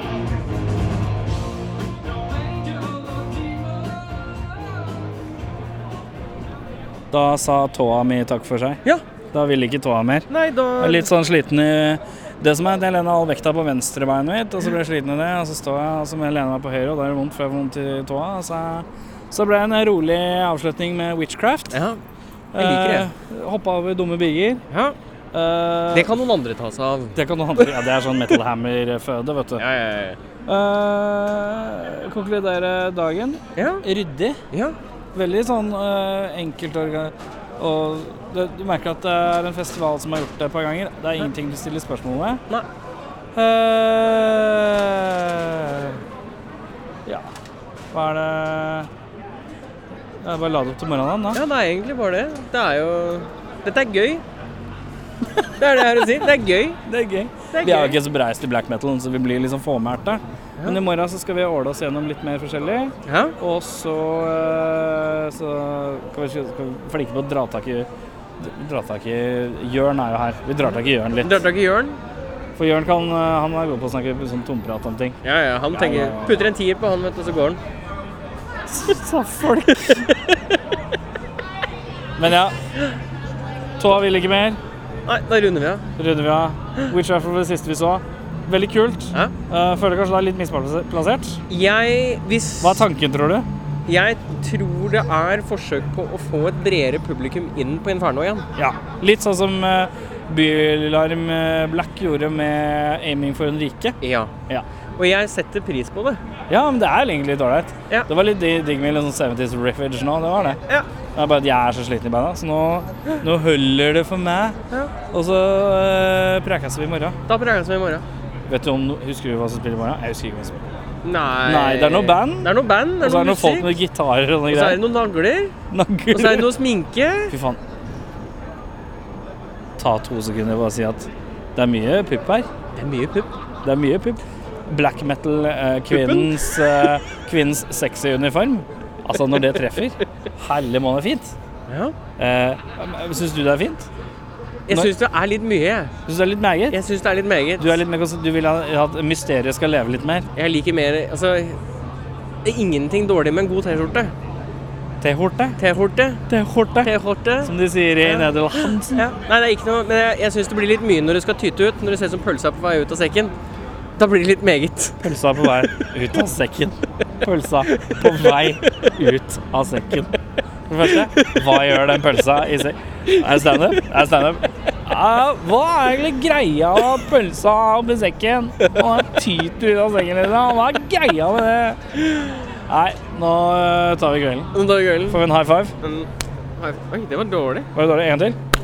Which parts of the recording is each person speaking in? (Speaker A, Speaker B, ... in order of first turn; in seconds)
Speaker A: 7.1-21.8, 22.5-24.6, 25.3-26.1, 27.1-29.6, 30.4-34.4, 35.1-42.4, 43.3-46.0, 47.9-48.9, 50.2-51.4, 56.8-67.9, 68.4-71.4, 72.6-75.2, 75.7-76.5, 78.7-80.0, 82.2-82.5, 83.8-84.6, 86.0-91.4, 92.6-93.5, 98.5-104.0, 106.5-110.6, 111.1-114.6, 115.1-117.2, 118.5-120.7, 121.4-124.8, 125.7-126.5, 127.3-127.6, 129.8-132.5, 133.6-141.3, 142.2-143.9, 146.1-146.8, 147.6-150.2, 155.0-155.6, 156.3-156.9, 157.4-159.1, 165.0-170.1, 170.7-181.8, 182.7-184.5, 185.1-185.7, 187.7-188.4
Speaker B: 10.3-11.1, 21.7-22.0, 22.6-23.1, 24.7-24.9, 25.9-27.7, 29.6-30.2, 33.5-33.8, 51.3-54.2, 55.6-56.8, 57.5-58.0, 63.0-63.3, 71.2-72.0, 75.2-77.6, 85.0-85.8, 91.5-92.9, 93.8-98.5, 104.0-104.3, 105.0-106.2, 117.3-118.0, 121.0-123.7, 124.5-125.5, 126.1-127.3, 132.8-133.3, 135.9-136.3, 141.7-141.9, 144.7-145.9, 146.7-147.8, 150.3-151.6, 152.4-154.1, 155.6-156.2, 156.8-163.3, 164.0-165.0, 167.7-168.9, 170.9-171.3, 184.5-185.2, 185.8-187.7